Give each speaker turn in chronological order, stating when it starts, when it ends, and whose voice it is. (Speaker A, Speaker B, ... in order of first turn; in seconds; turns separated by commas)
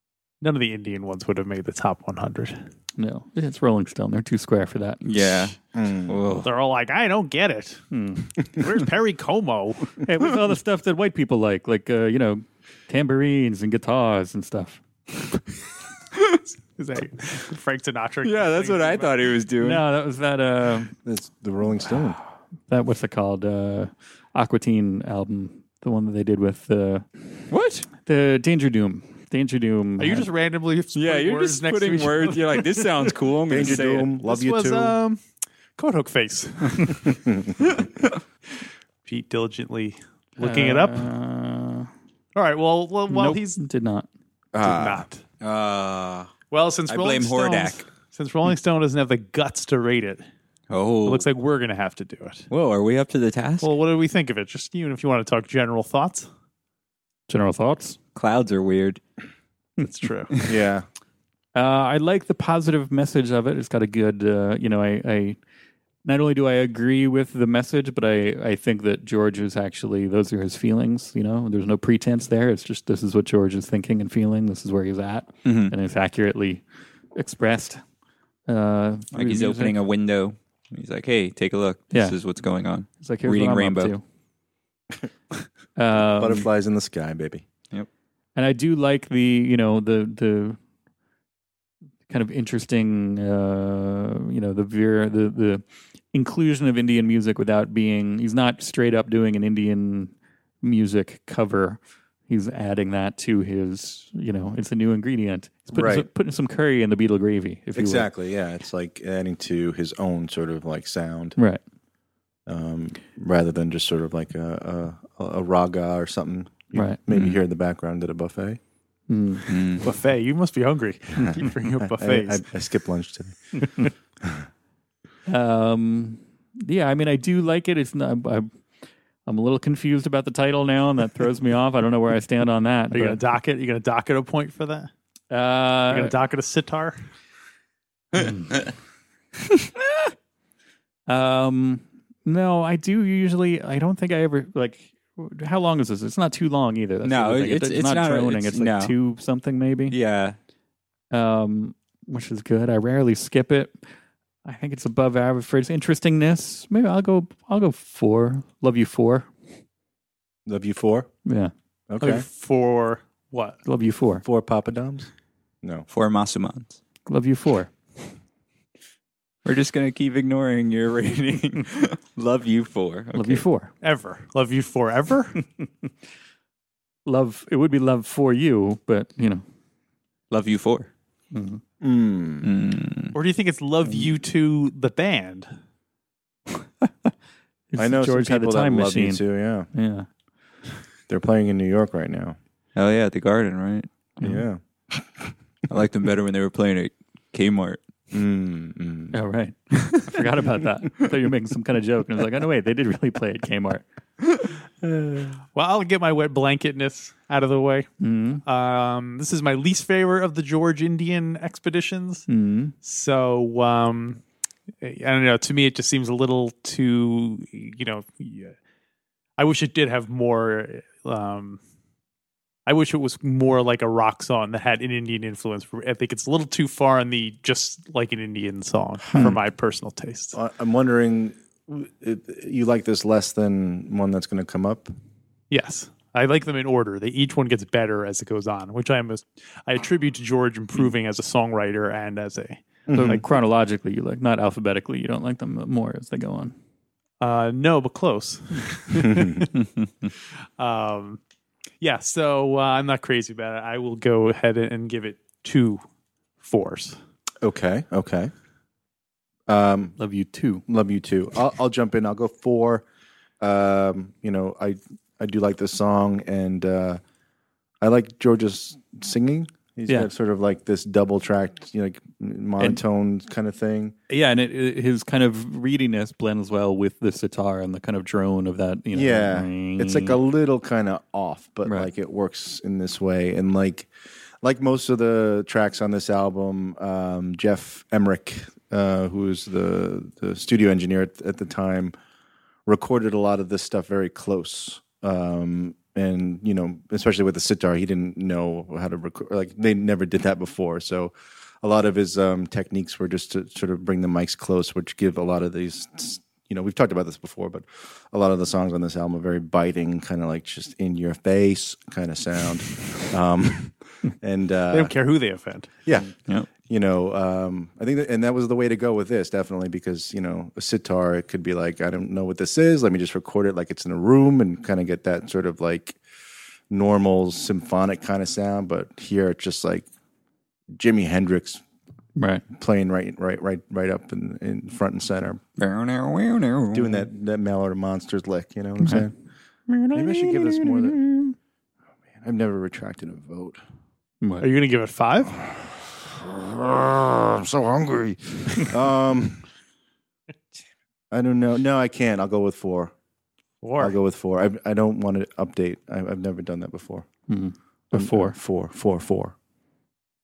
Speaker A: 0.4-2.6, Speaker B: 3.0-5.0, Speaker C: 5.0-5.5, Speaker D: 5.7-6.2, Speaker C: 6.1-6.5, Speaker A: 6.4-7.8, Speaker B: 7.9-8.6, Speaker A: 8.5-10.0, Speaker B: 10.0-15.3, Speaker A: 16.8-19.2, Speaker C: 18.2-19.8, Speaker B: 19.6-20.9, Speaker D: 21.0-22.2, Speaker B: 22.7-27.0, Speaker C: 27.5-27.9, Speaker B: 27.9-30.2, Speaker A: 30.0-33.1, Speaker C: 30.9-34.1, Speaker D: 33.5-35.0, Speaker A: 34.2-35.2, Speaker A: 35.8-37.2, Speaker D: 37.0-37.6, Speaker A: 39.0-41.1, Speaker B: 40.4-41.9, Speaker A: 42.3-43.6, Speaker B: 43.1-44.1, Speaker D: 44.5-45.0, Speaker A: 44.6-45.2, Speaker C: 45.4-46.3, Speaker A: 46.5-50.2, Speaker C: 46.9-47.8, Speaker C: 50.7-51.2, Speaker A: 51.0-52.5, Speaker C: 52.5-53.7, Speaker A: 53.6-56.3, Speaker B: 57.3-58.0, Speaker C: 58.1-59.0, Speaker A: 59.8-60.3, Speaker D: 60.4-60.8, Speaker B: 61.5-65.4, Speaker B: 66.0-76.6, Speaker C: 75.4-75.7, Speaker B: 77.1-77.8, Speaker B: 78.5-79.8, Speaker C: 79.1-83.9, Speaker B: 81.9-82.2, Speaker B: 83.0-84.0, Speaker B: 85.8-86.5, Speaker D: 86.0-87.4, Speaker B: 88.3-90.6, Speaker B: 92.1-95.6, Speaker B: 96.1-108.1, Speaker D: 105.7-106.1, Speaker D: 107.8-111.4, Speaker B: 111.3-111.6, Speaker D: 112.5-118.6, Speaker B: 116.7-117.0, Speaker C: 117.1-117.4, Speaker B: 119.1-119.5, Speaker C: 119.5-119.8, Speaker A: 119.8-122.4, Speaker B: 121.2-121.4, Speaker D: 122.0-124.4, Speaker B: 125.3-128.5, Speaker B: 129.2-133.2, Speaker A: 132.9-134.9, Speaker B: 135.3-136.1, Speaker A: 135.9-136.9, Speaker B: 138.1-138.5, Speaker B: 141.1-150.0, Speaker C: 147.0-148.9, Speaker C: 149.9-150.4, Speaker B: 151.1-153.8, Speaker B: 154.4-159.3, Speaker D: 160.4-161.1, Speaker B: 161.2-161.5, Speaker D: 161.9-162.2, Speaker A: 162.0-163.6, Speaker B: 163.6-164.2, Speaker D: 164.2-165.1, Speaker D: 165.6-165.9, Speaker C: 165.9-166.8, Speaker B: 167.1-167.7, Speaker C: 169.4-173.4, Speaker B: 173.1-173.7, Speaker A: 173.8-175.4, Speaker B: 177.1-179.4, Speaker C: 180.3-180.9, Speaker B: 181.3-181.6, Speaker D: 181.8-182.5, Speaker C: 182.4-183.2, Speaker A: 183.1-185.5, Speaker B: 187.7-190.1, Speaker D: 187.8-189.7, Speaker D: 191.1-192.4, Speaker C: 192.7-193.9, Speaker D: 194.2-195.3, Speaker C: 195.7-197.8, Speaker D: 198.1-199.2, Speaker B: 199.1-203.8, Speaker A: 205.5-207.9, Speaker B: 208.0-208.4, Speaker A: 208.4-212.3, Speaker B: 212.3-212.7, Speaker A: 212.8-214.2, Speaker A: 214.8-218.5, Speaker A: 219.4-221.6, Speaker A: 222.7-230.3, Speaker D: 230.3-234.9, Speaker A: 235.5-243.2, Speaker D: 242.9-243.2, Speaker B: 242.9-246.5, Speaker A: 247.2-249.5, Speaker D: 249.1-249.4, Speaker A: 250.6-251.2, Speaker A: 251.8-255.8, Speaker A: 256.4-257.0, Speaker D: 257.4-258.3, Speaker D: 259.5-260.0, Speaker B: 260.0-260.6, Speaker D: 260.7-262.8, Speaker D: 263.4-267.0, Speaker D: 267.8-273.9, Speaker B: 274.1-280.2, Speaker D: 278.9-283.9, Speaker B: 281.6-281.9, Speaker D: 284.4-291.9, Speaker D: 292.6-314.9, Speaker A: 314.7-315.7, Speaker D: 315.8-316.1, Speaker D: 316.7-326.0, Speaker D: 326.7-329.9, Speaker D: 330.8-331.6, Speaker B: 332.1-332.4, Speaker D: 332.5-335.4, Speaker C: 335.6-337.1, Speaker D: 336.7-339.1, Speaker B: 339.7-341.2, Speaker D: 339.9-341.1, Speaker D: 342.2-343.6, Speaker B: 344.2-344.5, Speaker A: 344.4-345.3, Speaker D: 345.4-349.5, Speaker D: 351.1-352.9, Speaker A: 353.6-354.0, Speaker D: 353.8-357.1, Speaker B: 357.3-358.3, Speaker D: 357.9-359.4